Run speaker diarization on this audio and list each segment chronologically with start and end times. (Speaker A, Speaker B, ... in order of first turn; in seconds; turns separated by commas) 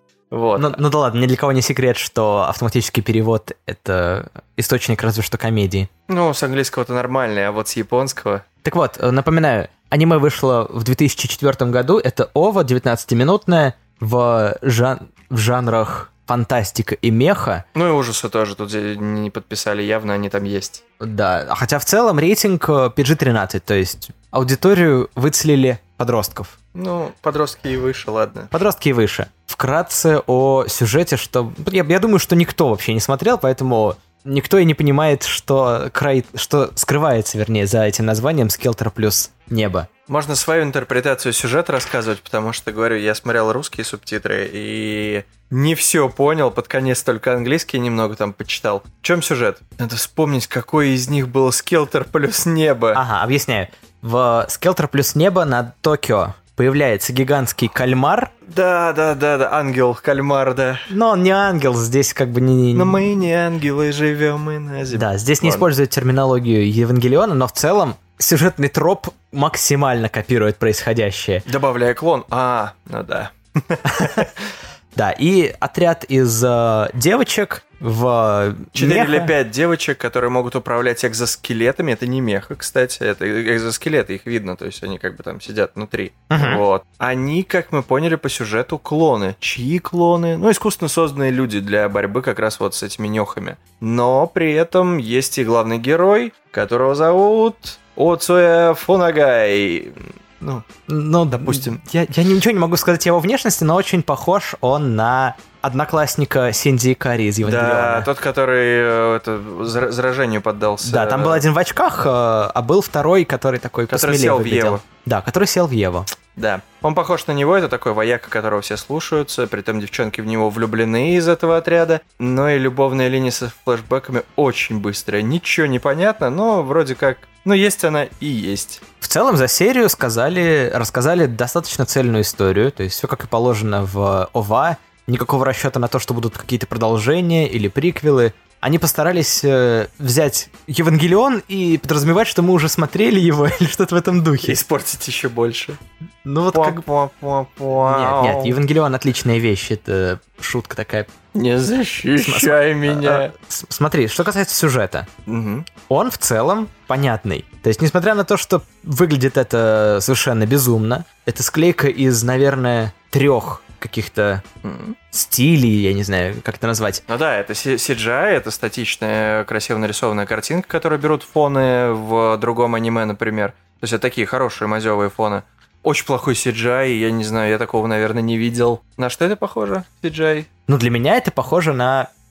Speaker A: 0.3-0.8, Speaker B: 0.6-5.9, Speaker A: 6.1-8.4, Speaker B: 8.6-17.6, Speaker A: 17.7-20.8, Speaker B: 21.0-26.6, Speaker A: 26.7-28.5, Speaker B: 28.5-39.9, Speaker A: 40.1-53.0, Speaker B: 52.9-58.3, Speaker A: 58.5-60.9, Speaker B: 60.9-63.1, Speaker A: 62.7-65.7, Speaker B: 64.9-71.5, Speaker A: 71.5-74.5, Speaker B: 73.9-74.2, Speaker B: 74.9-79.3, Speaker A: 78.7-100.7, Speaker B: 86.3-86.6, Speaker B: 100.9-108.1, Speaker A: 101.3-101.8, Speaker A: 107.4-111.5, Speaker B: 110.8-116.1, Speaker A: 113.9-114.8, Speaker A: 116.3-128.8, Speaker B: 129.0-144.6, Speaker A: 144.4-145.8, Speaker B: 146.2-146.8, Speaker A: 146.5-148.6, Speaker B: 147.8-151.1, Speaker A: 151.3-153.3, Speaker B: 152.2-155.1, Speaker A: 155.2-155.7, Speaker B: 155.9-164.4, Speaker A: 164.6-165.0, Speaker B: 165.1-167.0, Speaker A: 167.1-180.5, Speaker B: 180.7-182.1